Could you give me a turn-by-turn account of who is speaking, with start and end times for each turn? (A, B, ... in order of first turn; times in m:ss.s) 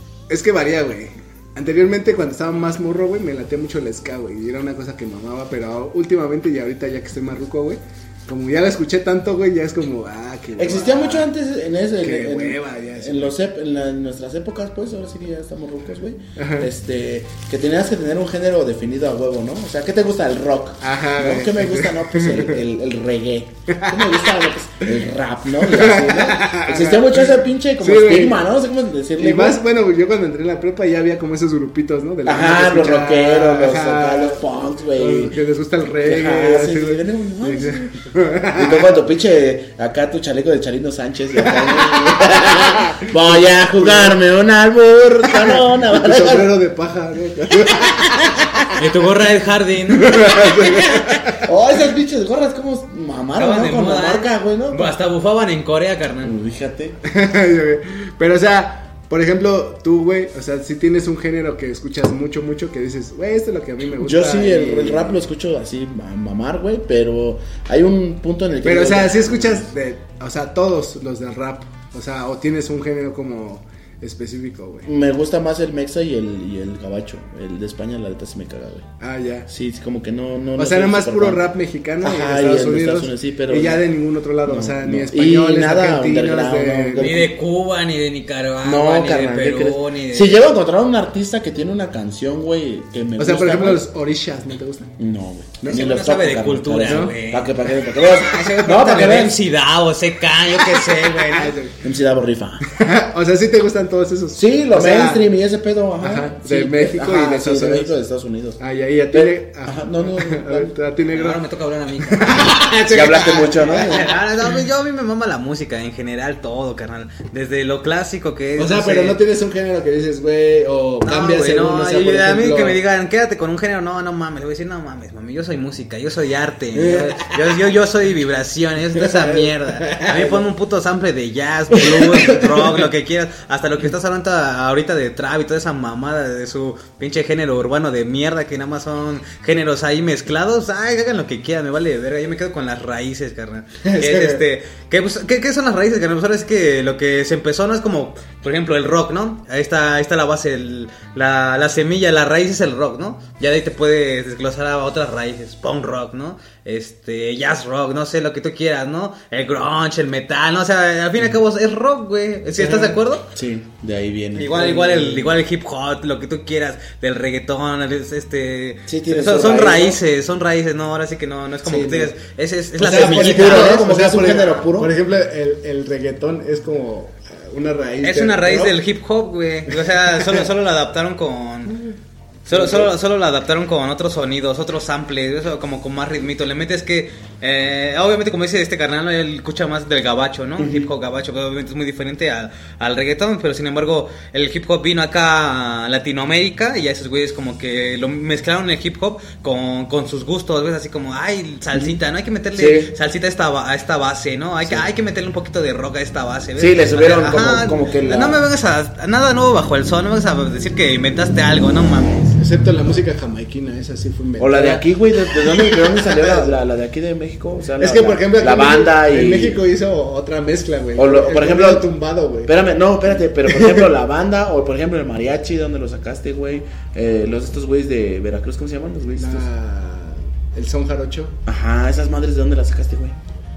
0:00.3-0:11.3 A
0:10.6-0:29.6 B
0:12.0-0:13.4 A
0:16.4-0:16.7 A
0:20.8-0:22.6 A
0:23.7-0:24.2 A
0:25.5-0:28.4 A
0:29.2-0:34.4 A
0:32.2-0:35.4 B
0:35.0-0:39.0 A
0:36.0-0:37.9 B
0:38.6-0:46.5 B
0:41.4-0:44.2 A
0:45.3-0:48.7 A
0:47.8-0:48.6 B
0:48.7-0:50.9 C
0:49.9-0:51.4 A
0:51.4-0:54.9 B
0:53.4-0:56.3 C
0:56.2-0:57.0 B
0:57.0-1:05.2 A
1:04.0-1:09.7 B
1:08.6-1:14.9 A
1:14.8-1:18.9 B
1:19.0-1:19.5 A
1:19.5-1:21.4 B
1:20.6-1:27.1 A
1:22.0-1:23.8 B
1:24.4-1:27.4 B
1:27.0-1:30.4 C
1:28.6-1:33.8 B
1:33.2-1:34.9 A
1:35.0-1:39.4 B
1:35.6-1:35.9 A
1:35.7-1:41.6 C
1:36.9-1:37.1 A
1:41.0-1:41.8 A
1:41.8-1:42.6 B
1:42.7-1:45.2 A
1:44.4-1:48.6 B
1:46.0-1:47.9 A
1:48.6-1:51.4 A
1:49.1-1:50.7 B
1:51.1-1:52.5 C
1:52.0-1:54.2 A
1:52.9-1:54.1 B
1:53.6-1:59.2 C
1:58.6-2:02.8 A
2:01.1-2:43.2 C
2:06.8-2:07.4 A
2:09.0-2:10.4 A
2:11.8-2:12.8 A
2:23.8-2:24.4 A
2:42.6-2:45.4 B
2:44.4-2:53.9 C
2:48.9-2:50.0 B
2:51.6-2:52.1 A
2:52.8-2:58.8 A
2:52.9-2:54.9 B
2:58.0-3:01.7 C
3:00.2-3:00.4 A
3:02.5-3:32.4 C
3:02.5-3:02.9 A
3:10.6-3:10.9 B
3:21.7-3:22.0 B
3:22.5-3:22.9 B
3:26.6-3:28.4 B
3:32.4-3:36.5 A
3:34.4-3:39.6 B
3:37.8-3:42.5 A
3:40.9-3:41.9 B
3:42.5-3:49.5 B
3:43.5-3:43.9 A
3:49.2-3:51.4 A
3:51.5-3:53.2 B